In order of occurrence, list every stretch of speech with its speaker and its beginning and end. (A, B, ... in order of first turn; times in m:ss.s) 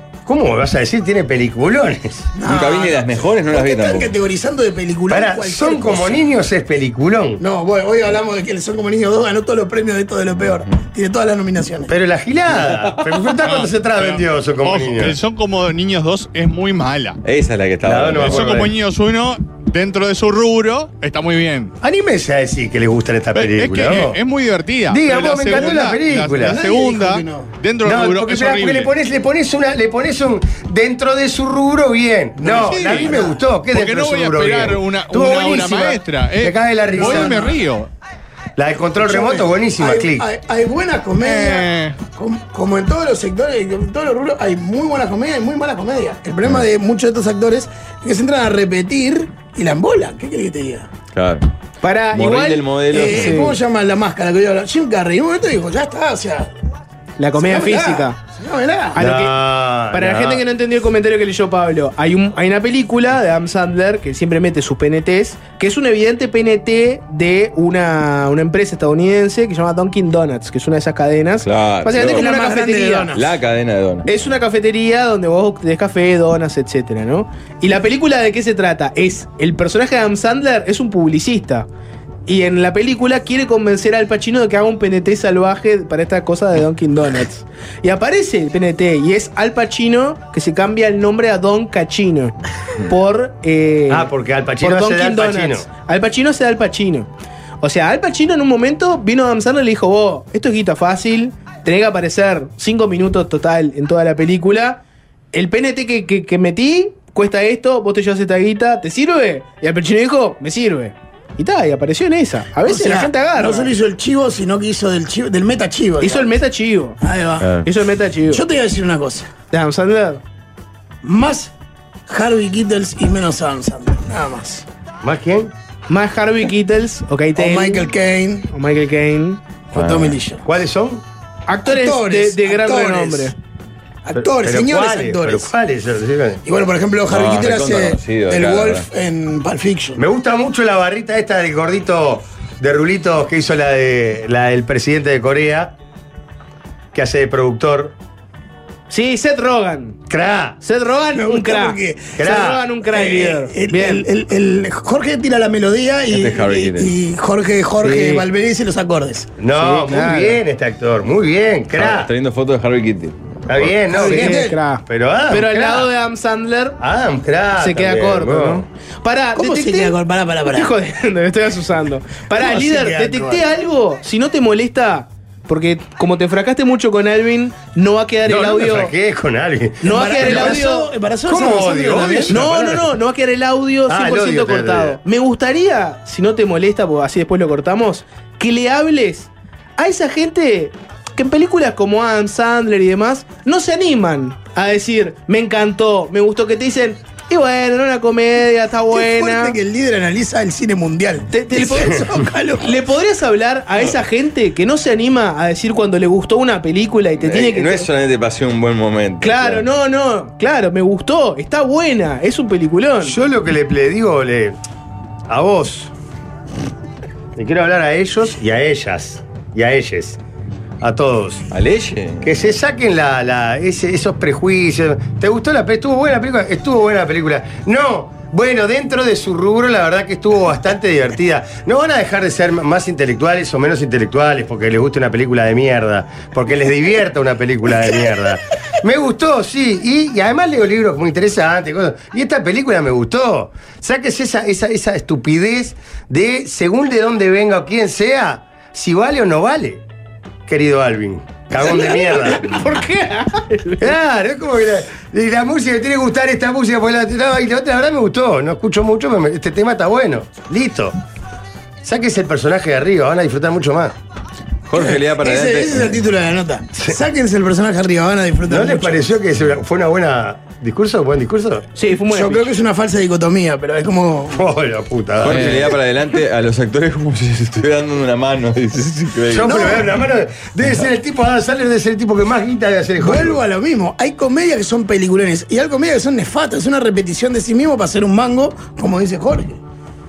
0:00.3-0:02.3 A
0:02.3-0:06.2 B
0:02.5-0:04.1 C
0:05.1-0:07.4 A
0:07.4-0:11.9 B
0:11.9-0:15.2 A
0:13.3-0:17.2 D
0:17.2-0:18.5 C
0:17.8-0:18.7 A
0:18.2-0:21.7 D
0:21.8-0:24.2 A
0:23.4-0:28.9 D
0:24.9-0:26.6 A
0:26.4-0:27.5 B
0:27.8-0:37.5 A
0:32.4-0:33.4 B
0:32.5-0:37.9 D
0:37.0-0:37.6 B
0:38.6-0:40.2 A
0:39.0-0:50.9 B
0:41.2-0:42.0 D
0:51.1-0:51.5 C
0:51.8-0:53.5 E
0:52.1-0:53.5 C
0:52.9-0:56.6 B
0:57.2-0:58.2 E
0:57.4-0:59.0 B
0:59.0-0:59.4 E
0:59.0-1:00.4 A
0:59.9-1:13.1 E
1:11.4-1:12.3 C
1:11.9-1:13.3 B
1:13.1-1:14.1 C
1:14.1-1:21.7 E
1:22.3-1:37.1 E
1:33.9-1:35.7 A
1:37.6-1:44.8 E
1:45.3-1:53.7 E
1:52.6-1:56.3 B
1:56.0-1:57.0 E
1:57.0-1:57.6 B
1:57.6-1:58.4 E
1:58.3-1:59.3 B
1:59.5-2:00.2 E
2:01.0-2:01.5 B
2:02.1-2:04.7 B
2:05.0-2:05.5 A
2:05.9-2:07.9 E
2:07.4-2:08.5 B
2:08.5-2:09.4 E
2:09.7-2:10.4 B
2:09.7-2:10.2 C
2:10.4-2:11.0 A
2:11.5-2:13.4 E
2:11.6-2:13.4 B
2:14.0-2:15.5 B
2:14.1-2:16.4 A
2:16.4-2:20.0 B
2:17.1-2:18.9 C
2:20.0-2:25.8 A
2:26.9-2:28.0 A
2:28.9-2:30.0 E
2:30.1-2:30.6 A
2:30.6-2:34.0 E
2:31.1-2:39.3 B
2:32.2-2:32.6 A
2:36.1-2:36.9 C
2:37.8-2:38.3 E
2:39.4-2:42.1 A
2:39.5-2:40.4 E
2:41.8-2:43.7 C
2:43.5-2:45.9 A
2:43.9-2:44.6 B
2:44.0-2:46.8 E
2:46.8-2:48.6 A
2:47.6-2:50.0 E
2:49.4-2:50.8 B
2:50.5-2:58.9 E
2:52.3-2:53.5 B
2:58.3-3:00.7 A
2:59.8-3:00.9 E
2:59.8-3:02.5 B
3:01.3-3:02.9 A
3:02.3-3:19.6 E
3:03.9-3:05.0 A
3:18.9-3:22.8 B
3:21.3-3:27.9 E
3:27.2-3:29.7 C
3:29.2-3:33.2 E
3:33.0-3:34.6 A
3:35.3-3:35.9 A
3:37.4-3:40.2 A
3:40.8-3:41.4 A
3:41.5-3:42.6 C
3:42.2-4:09.8 A
4:10.5-4:12.4 A
4:11.6-4:13.9 E
4:13.8-4:21.0 A
4:21.8-4:24.0 A
4:24.7-4:26.0 C
4:24.7-4:29.1 B
4:28.5-4:31.6 A
4:31.8-4:32.5 E
4:32.1-4:34.4 B
4:34.3-4:35.6 A
4:35.2-4:39.6 C
4:39.3-4:43.4 A
4:39.4-4:39.9 B
4:43.0-4:49.6 B